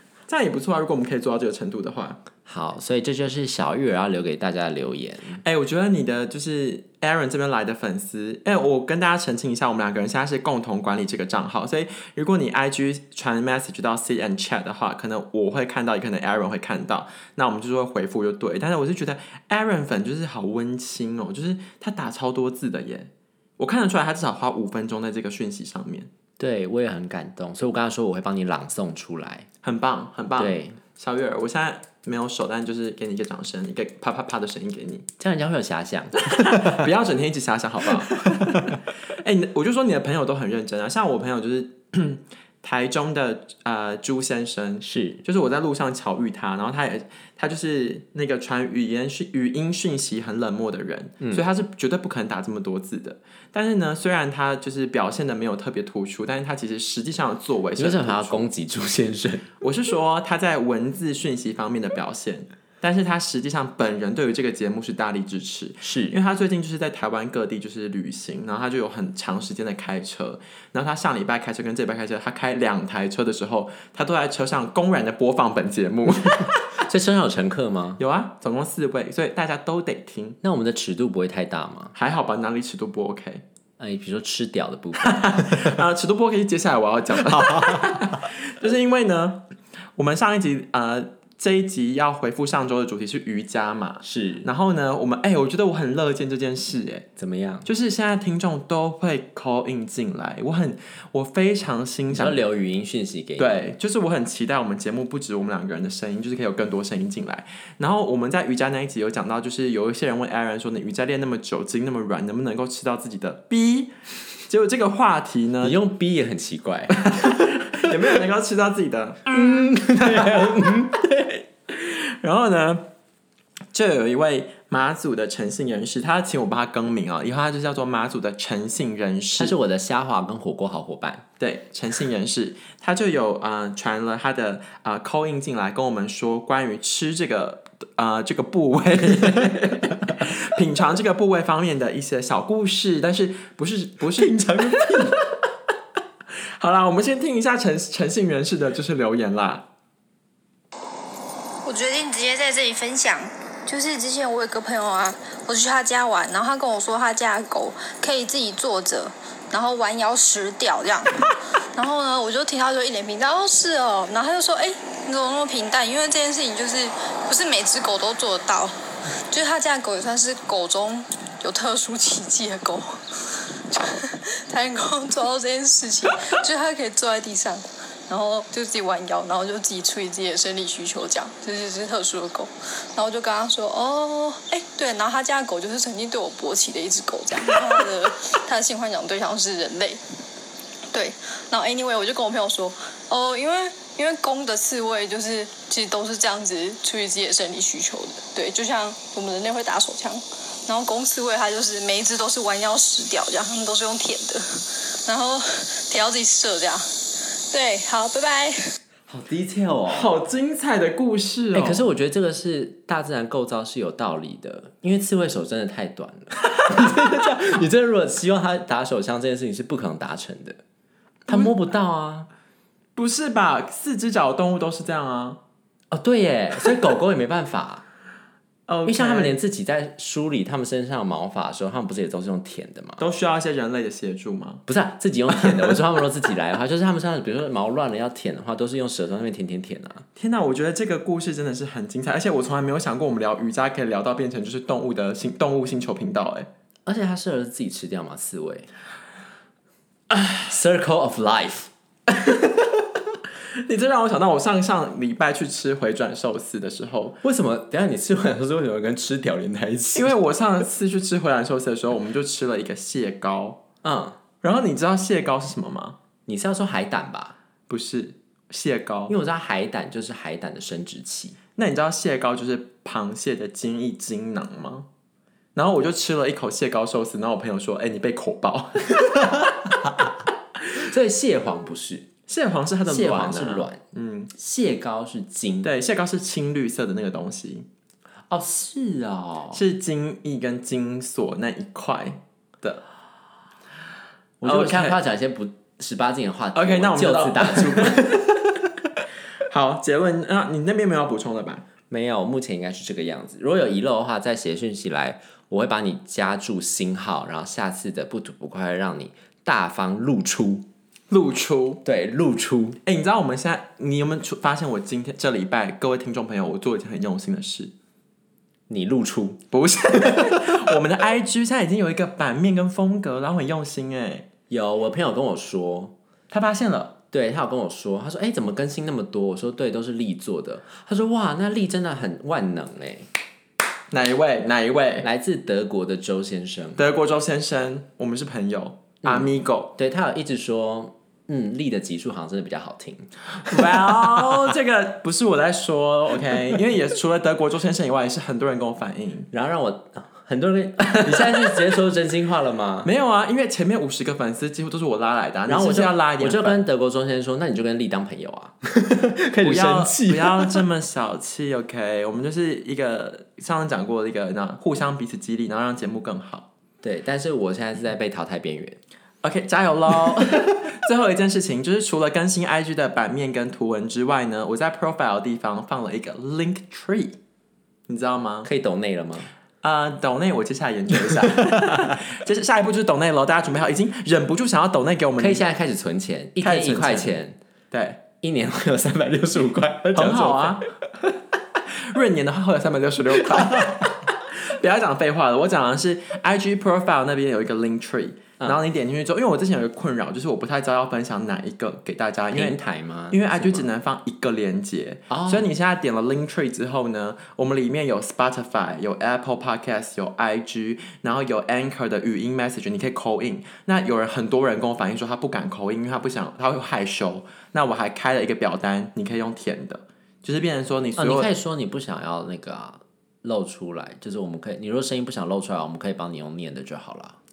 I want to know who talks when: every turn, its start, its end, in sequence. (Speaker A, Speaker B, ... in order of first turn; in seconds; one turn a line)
Speaker A: 0.3-2.2
Speaker B: 2.4-5.4
Speaker A: 5.4-26.1
Speaker B: 26.4-29.5
Speaker A: 29.6-35.0
Speaker B: 30.4-30.8
Speaker B: 35.2-36.8
Speaker A: 36.3-58.5
Speaker B: 44.8-45.2
Speaker B: 57.8-59.5
Speaker A: 59.6-76.6
Speaker B: 65.8-66.2
Speaker B: 76.8-78.0
Speaker A: 78.0-80.4
Speaker B: 80.4-81.9
Speaker A: 81.9-83.4
Speaker B: 83.8-85.8
Speaker A: 85.0-89.4
Speaker B: 87.4-88.0
Speaker A: 90.0-97.0
Speaker B: 94.0-94.5
Speaker B: 97.2-97.7
Speaker A: 97.6-102.5
Speaker B: 102.1-103.6
Speaker A: 103.4-113.9
Speaker A: 114.5-115.8
Speaker B: 115.6-117.5
Speaker A: 117.0-119.3
Speaker B: 119.3-121.4
Speaker A: 121.7-122.9
Speaker A: 123.7-129.6
Speaker B: 129.3-131.2
Speaker A: 131.4-145.2
Speaker B: 144.2-145.2
Speaker A: 146.6-149.6
Speaker C: 151.6-168.7
Speaker C: 169.3-190.0
Speaker C: 190.9-208.6
Speaker B: 209.1-210.1
Speaker A: 209.9-211.9
Speaker B: 211.5-220.6
Speaker B: 221.2-222.3
Speaker A: 221.3-221.6
Speaker A: 222.9-225.4
Speaker B: 225.9-227.8
Speaker A: 228.7-229.4
Speaker B: 228.8-233.0
Speaker A: 233.0-234.6
Speaker B: 234.7-240.0
Speaker A: 235.4-235.8
Speaker A: 240.2-246.5
Speaker B: 246.8-248.7
Speaker B: 250.4-251.7
Speaker A: 253.7-257.2
Speaker B: 257.2-260.1
Speaker A: 259.9-263.6
Speaker B: 263.8-264.2
Speaker A: 264.4-266.0
Speaker B: 266.3-267.3
Speaker A: 267.7-269.1
Speaker B: 269.1-271.4
Speaker A: 271.6-274.9
Speaker A: 275.5-279.5
Speaker B: 279.3-280.0
Speaker B: 280.8-282.1
Speaker A: 282.3-284.3
Speaker B: 282.9-283.8
Speaker B: 284.3-285.7
Speaker A: 285.6-287.7
Speaker B: 288.3-289.6
Speaker A: 289.5-292.8
Speaker B: 294.4-298.4
Speaker A: 294.4-295.0
Speaker A: 296.5-298.1
Speaker A: 299.5-301.6
Speaker B: 301.9-310.6
Speaker A: 311.1-311.8
Speaker B: 311.8-312.8
Speaker A: 312.8-317.7
Speaker B: 318.7-319.4
Speaker A: 319.5-324.2
Speaker B: 324.5-325.9
Speaker A: 326.3-326.9
Speaker B: 327.1-333.1
Speaker A: 333.9-335.1
Speaker B: 335.0-336.8
Speaker A: 336.8-339.7
Speaker B: 339.0-343.6
Speaker A: 343.4-349.3
Speaker B: 349.3-352.9
Speaker A: 350.8-351.6
Speaker A: 352.8-356.6
Speaker B: 355.5-360.6
Speaker A: 359.4-366.4
Speaker B: 366.8-368.8
Speaker A: 369.2-377.1
Speaker A: 377.9-378.5
Speaker B: 378.4-379.3
Speaker A: 379.6-385.4
Speaker B: 381.5-381.9
Speaker B: 385.2-387.4
Speaker A: 386.4-387.2
Speaker A: 387.7-388.0
Speaker B: 388.2-390.6
Speaker A: 389.9-390.7
Speaker A: 391.9-402.6
Speaker B: 402.3-403.7
Speaker A: 403.1-421.3
Speaker B: 405.1-405.5
Speaker B: 420.9-427.2